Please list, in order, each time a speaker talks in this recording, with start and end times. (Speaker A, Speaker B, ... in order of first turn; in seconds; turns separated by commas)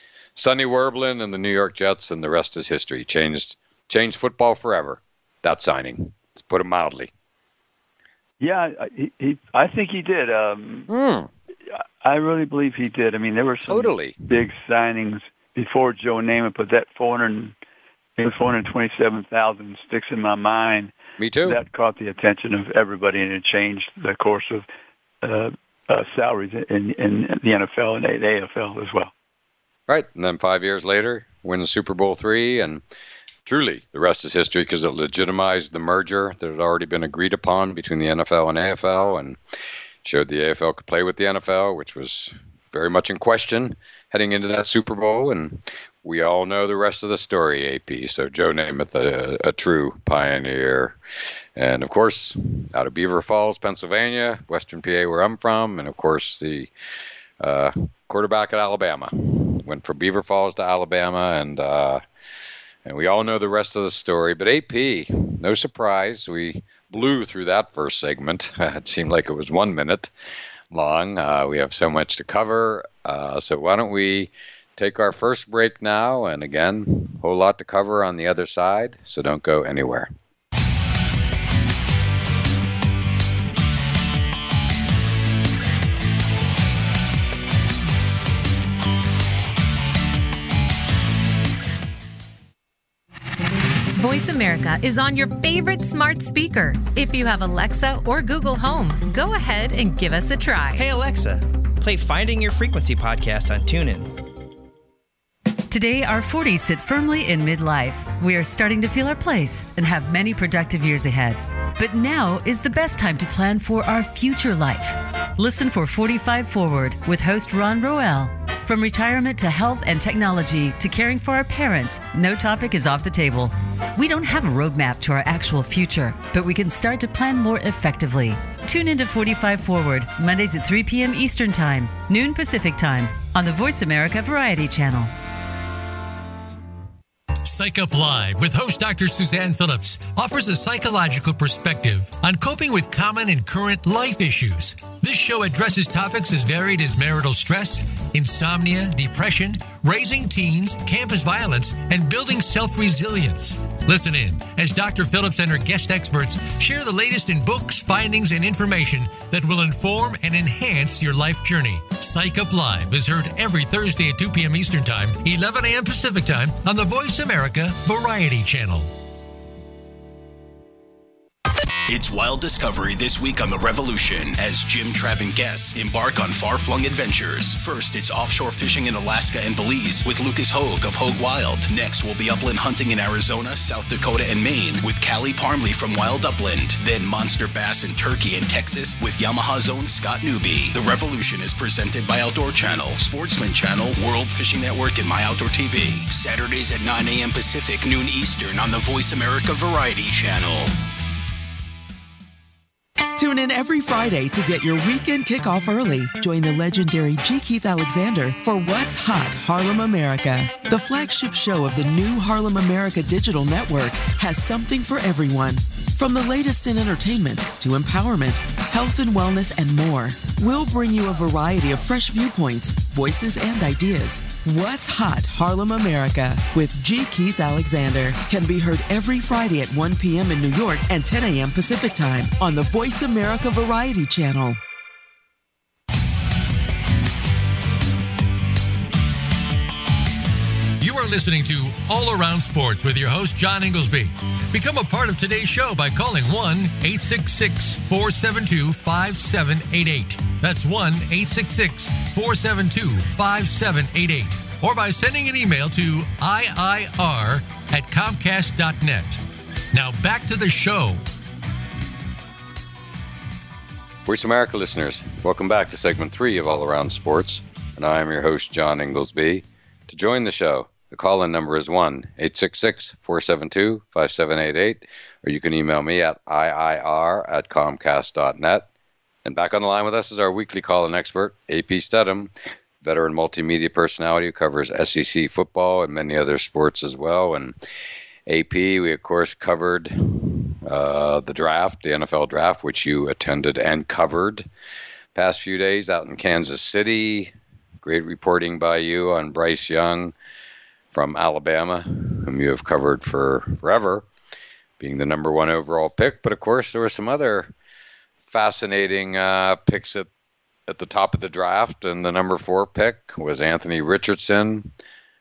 Speaker A: 0.3-7.1, Speaker B: 8.4-10.9, Speaker A: 10.9-11.3, Speaker B: 12.0-17.5, Speaker A: 13.6-14.2, Speaker B: 18.2-24.6, Speaker A: 21.2-21.6, Speaker B: 25.2-29.1, Speaker A: 29.9-32.8, Speaker A: 33.4-39.4, Speaker A: 40.0-51.0, Speaker A: 51.6-56.7, Speaker A: 57.4-62.0, Speaker A: 62.8-70.1, Speaker A: 70.7-80.1, Speaker C: 93.9-100.8, Speaker D: 100.7-104.1, Speaker E: 105.7-135.1, Speaker F: 137.4-168.9, Speaker G: 171.9-200.7, Speaker H: 203.1-234.6, Speaker F: 240.8-261.0, Speaker A: 264.1-278.7, Speaker A: 279.2-287.5, Speaker A: 288.3-294.5, Speaker A: 295.1-300.1, Speaker A: 300.9-304.1, Speaker A: 304.8-307.5, Speaker A: 308.3-310.1, Speaker A: 310.7-314.7